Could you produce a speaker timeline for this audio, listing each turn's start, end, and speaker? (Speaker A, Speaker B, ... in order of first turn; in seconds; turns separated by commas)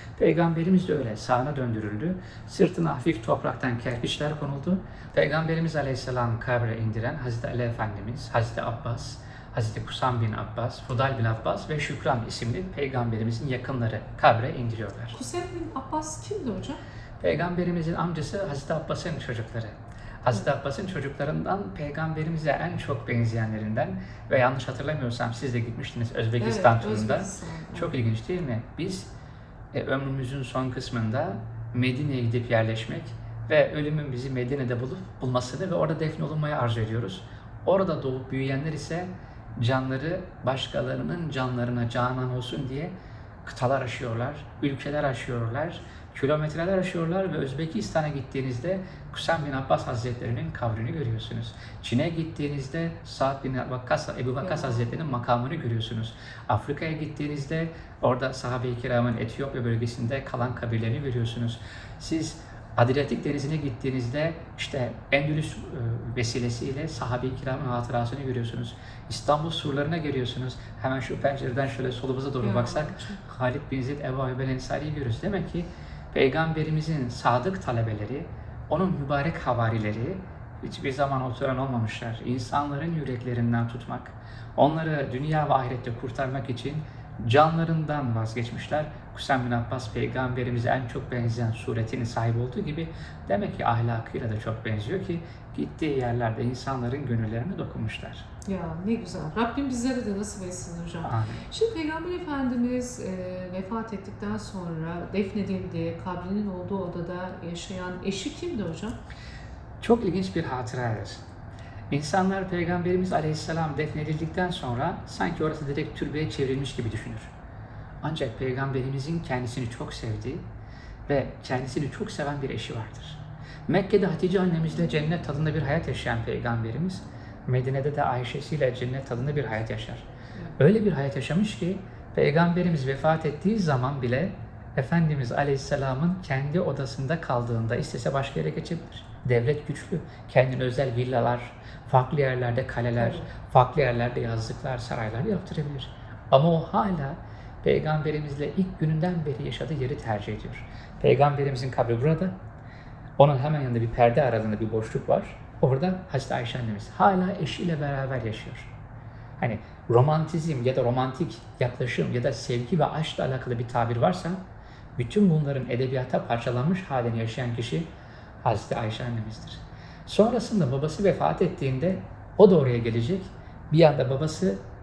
Speaker A: 0.2-15.2, Speaker B: 15.1-16.8, Speaker A: 17.2-29.1, Speaker B: 26.4-27.9, Speaker A: 29.7-42.9, Speaker A: 43.4-98.2, Speaker B: 54.4-54.9, Speaker B: 72.4-73.2, Speaker B: 98.5-109.0, Speaker A: 101.0-101.4, Speaker A: 109.8-111.2, Speaker A: 111.9-117.3, Speaker A: 118.0-120.4, Speaker A: 121.1-130.0, Speaker A: 130.6-152.3, Speaker B: 143.0-143.3, Speaker A: 153.2-158.7, Speaker A: 159.4-164.4, Speaker A: 165.0-167.9, Speaker A: 168.4-174.6